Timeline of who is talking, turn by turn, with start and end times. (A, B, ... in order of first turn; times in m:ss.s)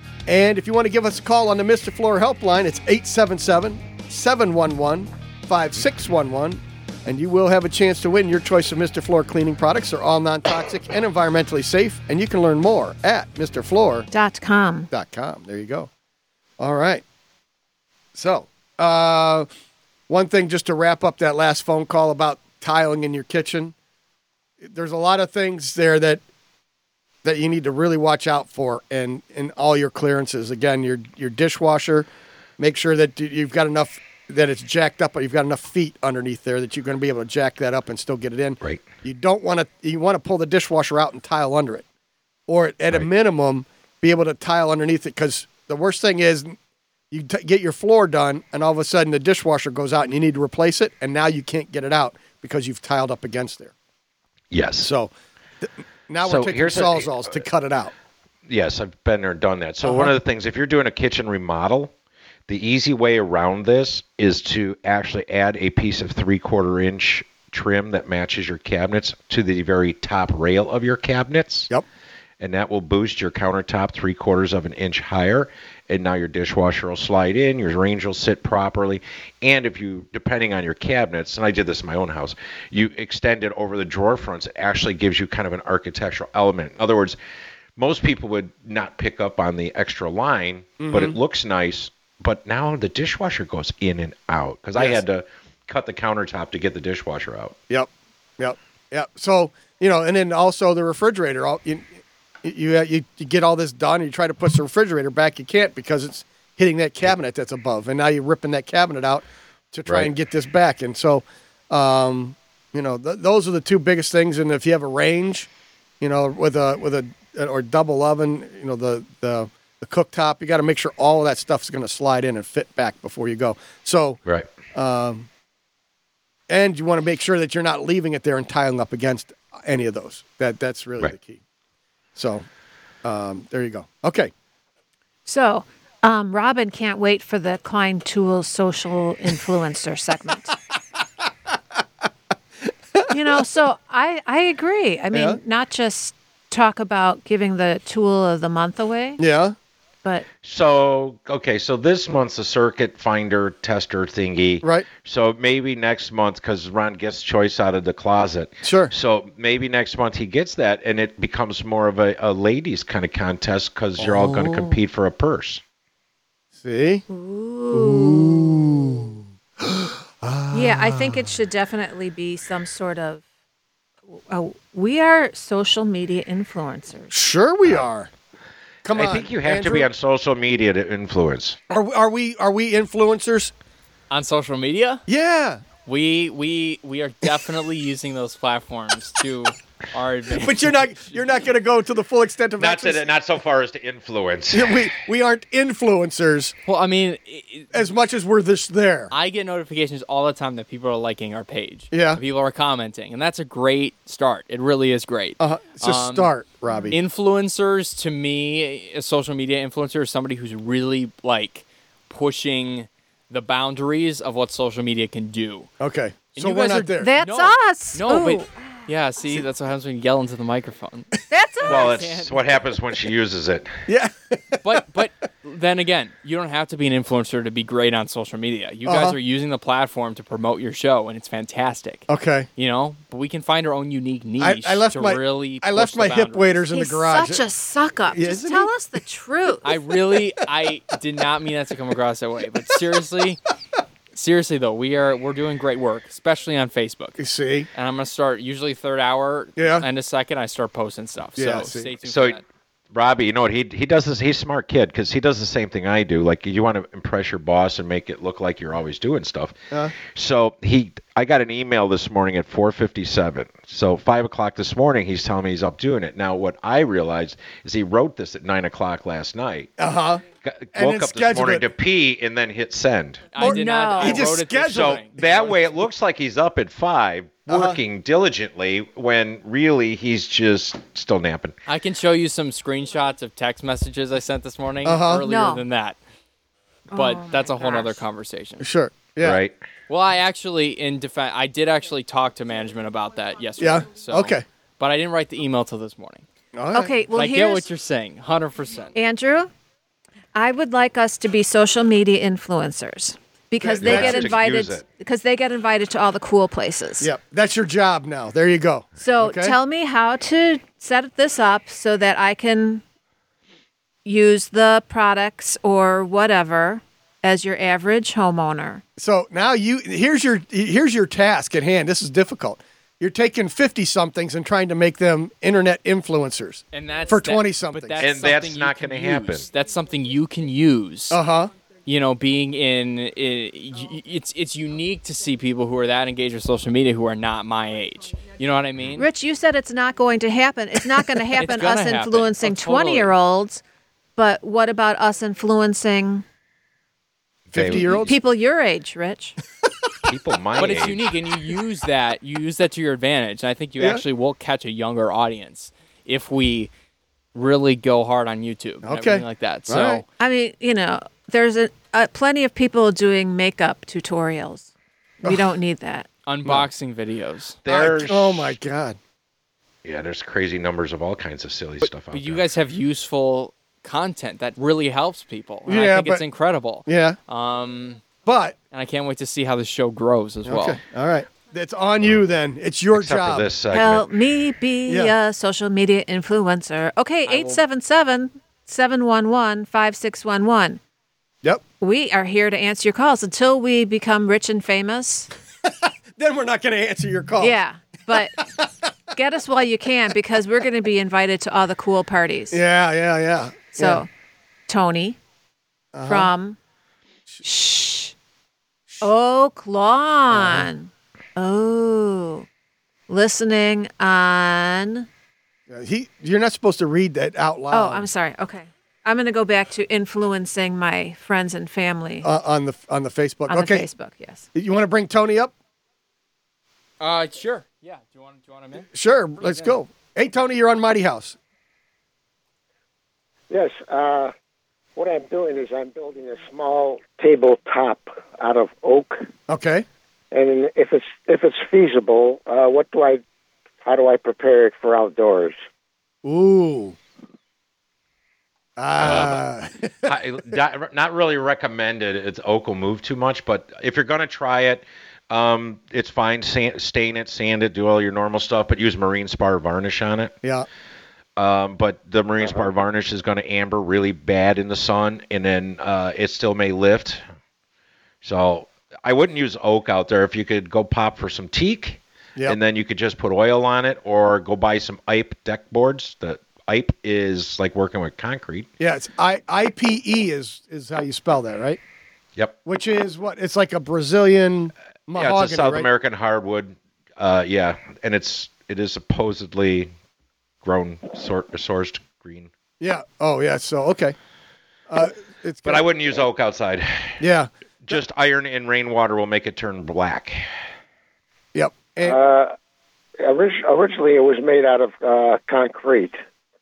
0:00.3-0:14.1 A
0:14.1-0:14.9 B
0:14.9-0:15.9 A
0:16.6-0:17.0 A
0:18.1-0:19.5 A
0:20.1-0:23.7 A
0:24.6-0:26.2 A
0:27.2-0:41.8 A
0:42.5-0:46.6 A
0:47.1-0:53.7 A
0:54.5-0:54.9 C
0:54.8-0:57.9 A
0:56.2-0:57.4 C
0:58.5-1:01.9 C
0:59.8-1:00.1 A
1:02.5-1:11.7 C
1:12.4-1:27.2 C
1:27.8-1:37.6 C
1:30.8-1:31.2 A
1:34.8-1:35.0 A
1:37.7-1:55.5 A
1:56.0-2:04.2 A
2:04.7-2:05.3 A
2:06.5-2:11.4 A
2:12.2-2:12.5 A
2:13.0-2:14.3 A
2:15.3-2:20.6 B
2:23.1-2:29.2 B
2:25.1-2:25.4 A
2:29.2-2:29.6 A
2:30.4-2:45.6 C
2:34.6-2:34.9 A
2:38.6-2:38.9 A
2:44.0-2:44.8 A
2:46.6-2:47.0 A
2:47.1-2:48.5 B
2:47.7-2:51.3 A
2:50.5-2:53.2 B
2:54.1-2:57.2 B
2:57.1-2:58.1 A
2:58.8-2:59.9 A
2:58.9-3:01.6 C
3:01.7-3:03.5 A
3:04.1-3:05.0 D
3:05.1-3:05.7 A
3:05.8-3:11.2 D
3:10.4-3:13.1 A
3:12.6-3:14.9 C
3:14.5-3:16.6 A
3:16.6-3:17.8 D
3:17.7-3:19.1 A
3:19.1-3:26.3 D
3:21.9-3:22.2 A
3:25.4-3:27.0 A
3:26.9-3:35.7 D
3:35.8-3:37.1 A
3:36.4-3:42.4 D
3:37.0-3:38.5 B
3:41.3-3:42.0 B
3:41.7-3:43.8 C
3:43.9-3:44.8 A
3:44.6-3:56.6 D
3:48.8-3:49.2 A
3:52.1-3:52.5 A
3:54.4-3:57.4 A
3:56.7-3:59.7 B
3:58.1-3:58.7 A
3:59.6-4:03.4 D
4:04.1-4:07.2 D
4:07.2-4:07.7 A
4:07.7-4:12.4 D
4:09.6-4:09.9 A
4:11.4-4:11.9 A
4:12.0-4:12.4 C
4:12.9-4:19.6 C
4:20.1-4:29.7 C
4:29.8-4:30.2 A
4:30.4-4:33.3 C
4:30.7-4:31.7 A
4:33.3-4:35.6 D
4:33.4-4:35.0 A
4:33.4-4:34.3 B
4:34.7-4:41.6 C
4:37.5-4:37.8 A
4:41.7-4:46.0 D
4:44.8-4:45.3 A
4:45.2-4:45.6 B
4:46.9-4:48.0 B
4:46.9-4:48.7 D
4:48.6-4:49.4 A
4:49.2-4:49.6 C
4:49.9-4:56.2 D
4:53.6-4:54.4 A
4:56.5-4:56.9 A
4:56.7-4:57.7 B
4:57.1-4:58.9 D
4:58.9-4:59.5 B
5:00.4-5:07.1 B
5:03.6-5:04.4 A
5:03.8-5:04.8 C
5:07.0-5:09.6 A
5:09.0-5:12.8 B
5:14.0-5:18.8 B
5:19.0-5:28.0 A
5:26.7-5:31.2 D
5:28.0-5:29.5 C
5:31.1-5:31.5 A
5:31.8-5:39.1 D
5:39.0-5:43.6 B
5:41.3-5:43.1 D
5:44.2-5:46.2 B
5:47.5-5:48.1 C
5:47.5-5:48.1 A
5:47.9-5:49.4 B
5:50.0-5:51.2 C
5:50.6-5:56.7 D
5:53.8-5:54.0 A
5:57.4-6:00.0 D
5:58.8-6:00.0 A
6:00.2-6:04.7 B
6:05.2-6:06.1 B
6:06.2-6:07.6 D
6:07.6-6:08.6 C
6:07.7-6:09.0 A
6:09.8-6:12.5 C
6:12.1-6:18.0 D
6:15.7-6:16.2 A
6:16.9-6:17.2 A
6:18.2-6:18.6 A
6:18.7-6:20.8 D
6:20.4-6:23.5 A
6:22.9-6:24.1 C
6:23.7-6:30.8 B
6:24.9-6:25.2 A
6:27.3-6:27.6 D
6:31.8-6:35.3 B
6:35.6-6:37.6 A
6:37.4-6:38.5 B
6:38.4-6:38.7 A
6:39.1-6:42.6 B
6:42.5-6:44.0 A
6:43.8-6:44.1 B
6:44.7-6:45.2 B
6:45.9-6:46.3 A
6:46.0-6:46.6 B
6:47.4-6:48.2 B
6:49.0-6:52.5 B
6:50.3-6:50.7 A
6:53.1-6:55.1 B
6:55.7-6:58.1 A
6:57.7-7:02.3 B
7:02.2-7:03.9 A
7:03.5-7:04.5 B
7:04.6-7:05.5 A
7:07.0-7:08.9 D
7:08.9-7:11.4 A
7:09.4-7:09.8 D
7:13.5-7:14.3 E
7:15.0-7:19.3 E
7:19.5-7:19.9 A
7:20.3-7:23.2 E
7:23.8-7:25.6 E
7:26.2-7:27.0 A
7:28.8-7:30.1 A
7:29.0-7:29.4 C
7:30.0-7:40.4 C
7:41.4-7:47.2 C
7:48.2-7:58.7 C
7:58.8-8:01.8 A
8:02.6-8:05.9 A
8:05.1-8:09.9 C
8:10.6-8:12.5 C
8:12.8-8:14.2 A
8:14.9-8:15.9 A
8:15.6-8:17.2 C
8:17.2-8:18.0 A
8:17.8-8:20.4 C
8:21.6-8:22.2 A
8:22.0-8:22.6 E
8:23.2-8:26.2 E